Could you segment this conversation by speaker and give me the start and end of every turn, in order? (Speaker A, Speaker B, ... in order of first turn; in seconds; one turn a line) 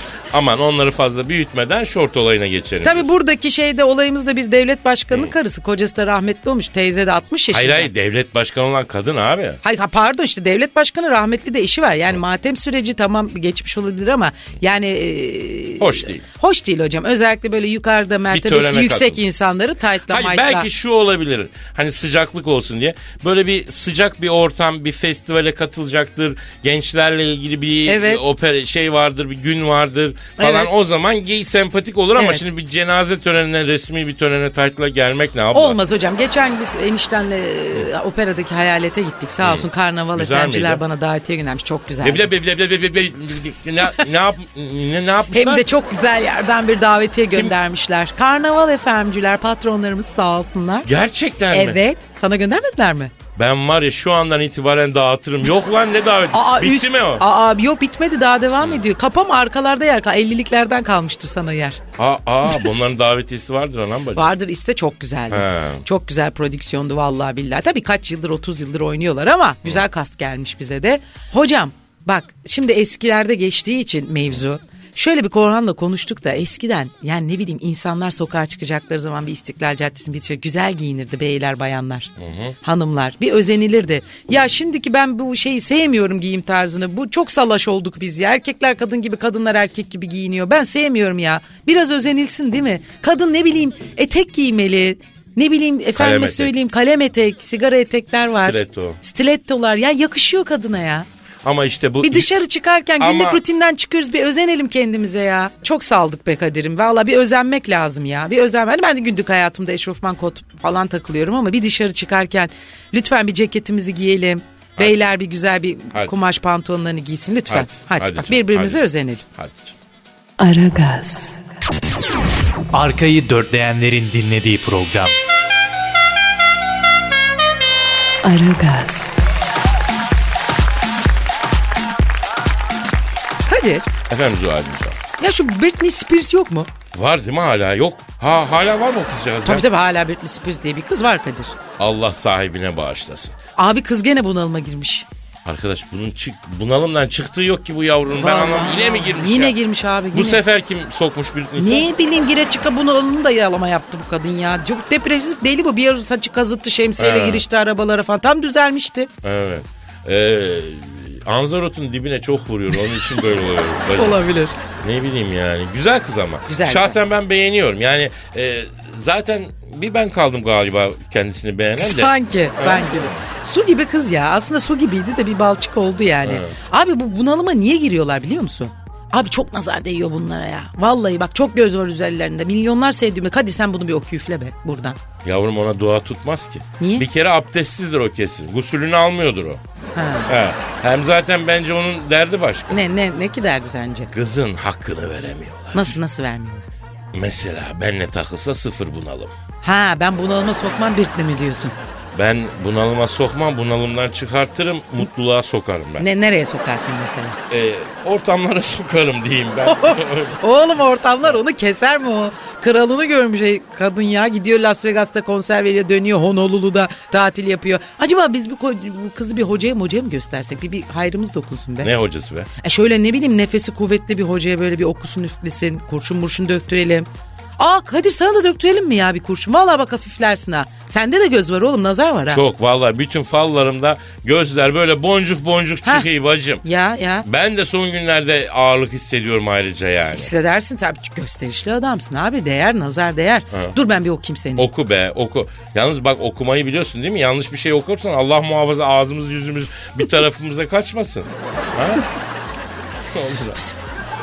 Speaker A: 0.3-3.1
Speaker B: 2.8-7.9
Speaker A: 7.5-9.6
Speaker B: 9.6-20.7
Speaker A: 15.8-16.2
Speaker A: 18.3-19.2
Speaker A: 20.1-35.8
Speaker B: 27.9-28.2
Speaker B: 30.4-30.7
Speaker B: 32.1-32.4
Speaker B: 35.5-42.3
Speaker A: 39.4-40.8
Speaker A: 42.0-45.7
Speaker B: 45.3-50.9
Speaker A: 50.9-51.8
Speaker B: 51.5-53.1
Speaker A: 53.4-57.2
Speaker B: 56.3-61.8
Speaker A: 62.0-64.3
Speaker B: 64.2-82.1
Speaker A: 65.3-65.8
Speaker A: 82.2-82.6
Speaker B: 82.6-101.1
Speaker A: 96.0-96.5
Speaker A: 98.2-99.0
Speaker A: 101.4-102.3
Speaker B: 102.0-119.2
Speaker A: 103.0-103.4
Speaker A: 115.9-116.2
Speaker A: 117.5-119.8
Speaker C: 120.4-121.4
Speaker D: 122.7-125.2
Speaker C: 128.2-129.2
Speaker B: 133.5-133.9
Speaker A: 134.1-135.0
Speaker B: 135.2-136.7
Speaker A: 136.9-139.7
Speaker B: 139.4-141.6
Speaker A: 141.8-143.4
Speaker B: 143.6-145.1
Speaker A: 145.4-149.6
Speaker B: 148.1-150.4
Speaker A: 150.1-151.9
Speaker B: 151.6-159.1
Speaker A: 157.0-157.4
Speaker A: 159.2-164.2
Speaker B: 164.0-164.6
Speaker A: 164.8-173.2
Speaker B: 166.5-167.0
Speaker B: 171.8-185.0
Speaker A: 176.2-176.6
Speaker A: 185.2-189.6
Speaker B: 186.8-187.1
Speaker B: 189.9-190.3
Speaker A: 190.3-192.8
Speaker B: 192.7-194.1
Speaker A: 194.1-196.0
Speaker B: 195.7-196.7
Speaker A: 197.1-199.3
Speaker B: 199.6-201.8
Speaker A: 202.1-206.1
Speaker B: 206.0-207.4
Speaker A: 207.5-210.4
Speaker B: 209.7-221.9
Speaker A: 221.8-222.5
Speaker B: 222.6-232.4
Speaker A: 232.3-236.6
Speaker B: 236.6-237.3
Speaker A: 237.2-240.3
Speaker B: 240.1-244.7
Speaker A: 244.6-252.1
Speaker A: 253.1-253.6